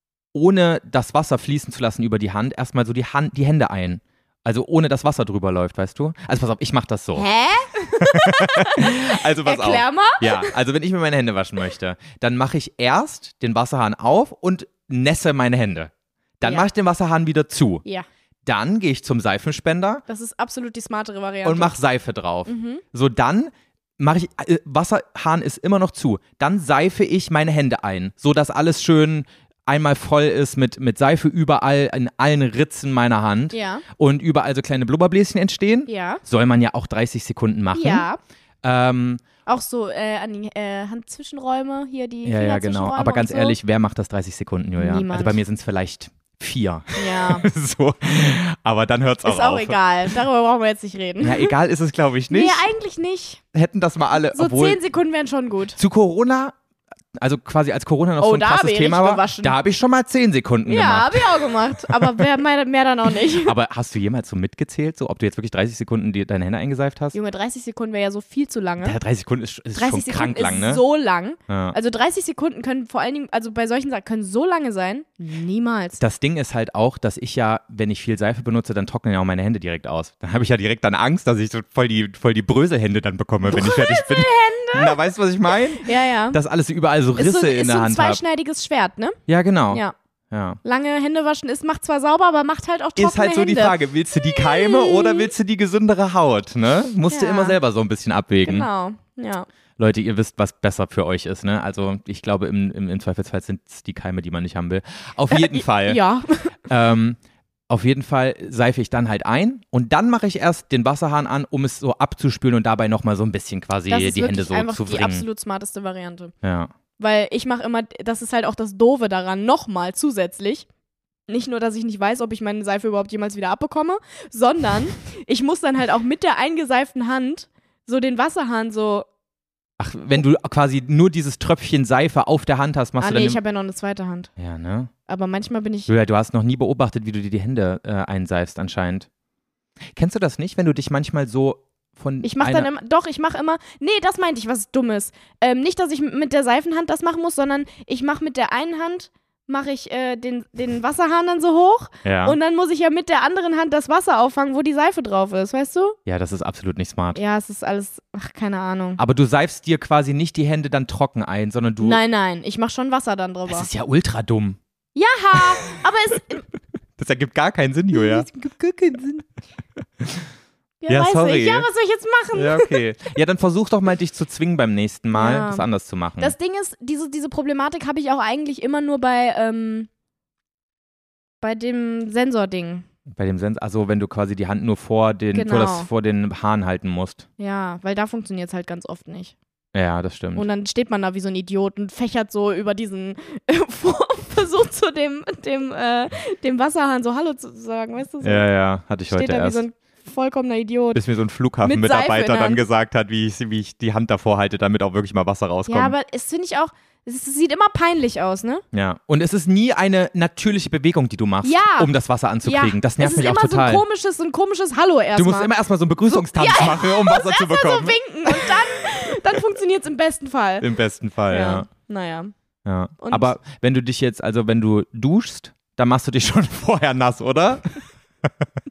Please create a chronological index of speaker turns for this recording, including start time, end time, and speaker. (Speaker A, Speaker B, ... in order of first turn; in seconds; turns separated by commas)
Speaker A: 0.3-7.2, Speaker B: 7.1-10.5, Speaker A: 8.0-17.8, Speaker A: 18.4-20.0, Speaker B: 20.1-21.8, Speaker A: 21.4-38.1, Speaker B: 22.4-22.8, Speaker B: 33.5-33.8, Speaker B: 35.9-36.2, Speaker B: 37.7-38.2, Speaker A: 38.6-39.2, Speaker B: 39.5-43.5, Speaker A: 42.2-49.8, Speaker B: 44.8-45.4, Speaker B: 47.0-47.5, Speaker B: 49.2-51.5, Speaker A: 51.2-52.6, Speaker B: 52.3-53.4, Speaker A: 53.5-54.8, Speaker B: 54.3-55.8, Speaker A: 55.8-56.5, Speaker A: 57.1-62.2, Speaker B: 58.2-59.6, Speaker B: 60.6-63.5, Speaker A: 63.3-67.1, Speaker B: 67.1-69.0, Speaker A: 68.8-70.8, Speaker B: 69.7-76.0, Speaker A: 71.5-71.8, Speaker A: 76.0-88.2, Speaker B: 83.5-86.4, Speaker B: 87.2-89.2, Speaker A: 89.3-90.6, Speaker B: 89.7-89.9, Speaker B: 90.6-95.3, Speaker A: 93.0-98.7, Speaker B: 97.1-97.6, Speaker B: 98.4-99.5, Speaker A: 99.8-106.0, Speaker B: 105.3-106.5, Speaker A: 106.6-115.2, Speaker B: 113.9-116.3, Speaker A: 116.4-116.7, Speaker B: 117.0-120.7, Speaker B: 121.3-129.1, Speaker A: 129.8-133.4, Speaker B: 133.0-134.3, Speaker A: 134.4-134.9, Speaker B: 135.1-135.9, Speaker A: 135.9-139.1, Speaker A: 139.9-142.7, Speaker B: 142.2-156.0, Speaker A: 152.0-152.4, Speaker A: 156.1-157.2, Speaker B: 157.1-159.0, Speaker A: 159.0-162.0, Speaker B: 161.8-163.7, Speaker A: 163.5-164.6, Speaker B: 164.9-166.4, Speaker A: 167.0-169.2, Speaker B: 167.9-168.3, Speaker A: 170.0-170.3, Speaker B: 170.8-172.8, Speaker A: 170.9-171.7, Speaker A: 172.3-176.3, Speaker B: 175.1-175.7, Speaker B: 176.2-179.9, Speaker B: 181.4-182.8, Speaker A: 183.1-187.2, Speaker B: 185.3-185.9, Speaker B: 187.4-189.3, Speaker A: 189.7-190.4, Speaker B: 190.3-198.5, Speaker A: 198.2-199.6, Speaker B: 199.1-201.0, Speaker A: 200.9-205.9, Speaker B: 201.6-202.6, Speaker B: 205.7-208.6, Speaker A: 208.7-213.8, Speaker B: 211.4-211.9, Speaker B: 212.4-215.5, Speaker A: 215.2-219.1, Speaker B: 216.1-220.7, Speaker A: 220.6-221.7, Speaker B: 221.3-222.3, Speaker A: 222.6-228.3, Speaker B: 223.0-223.3